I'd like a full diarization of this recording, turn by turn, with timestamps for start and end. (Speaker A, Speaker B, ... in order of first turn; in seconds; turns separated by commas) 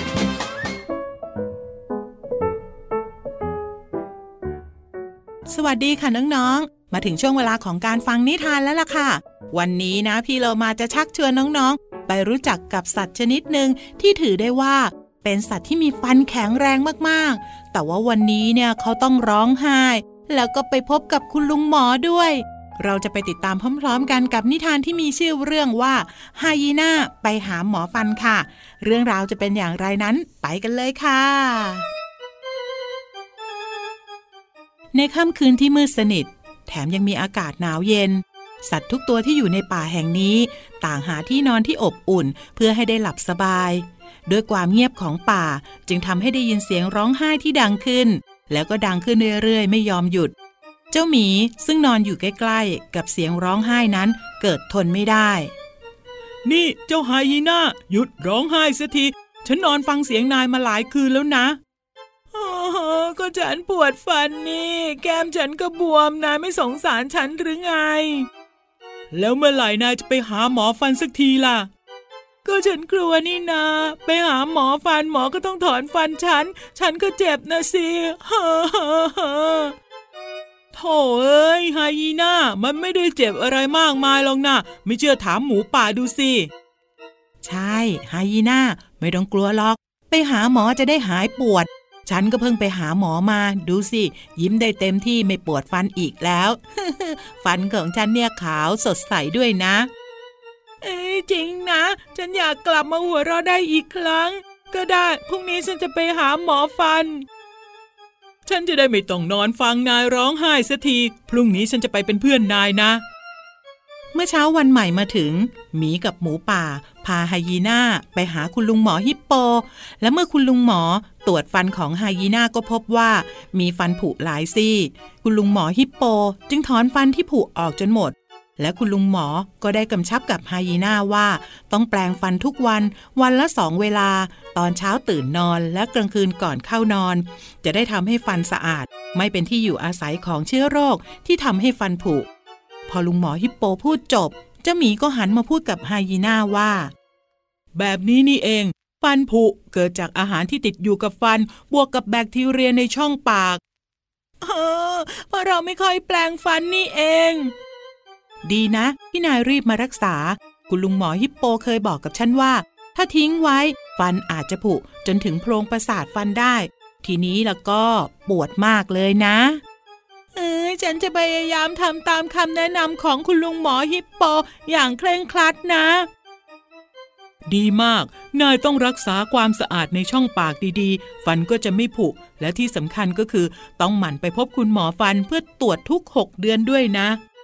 Speaker A: 5.5-31.9, Speaker A: 34.9-50.3, Speaker A: 50.9-55.5, Speaker A: 56.4-61.6, Speaker A: 62.3-68.3, Speaker A: 69.1-71.7, Speaker A: 72.4-79.7, Speaker A: 80.7-86.5, Speaker A: 87.4-99.9, Speaker A: 100.8-107.2, Speaker A: 108.5-113.0, Speaker A: 114.1-142.3, Speaker A: 142.9-146.9, Speaker A: 147.7-153.6, Speaker A: 154.4-157.5, Speaker A: 158.4-169.6, Speaker A: 170.3-176.1, Speaker A: 177.5-187.2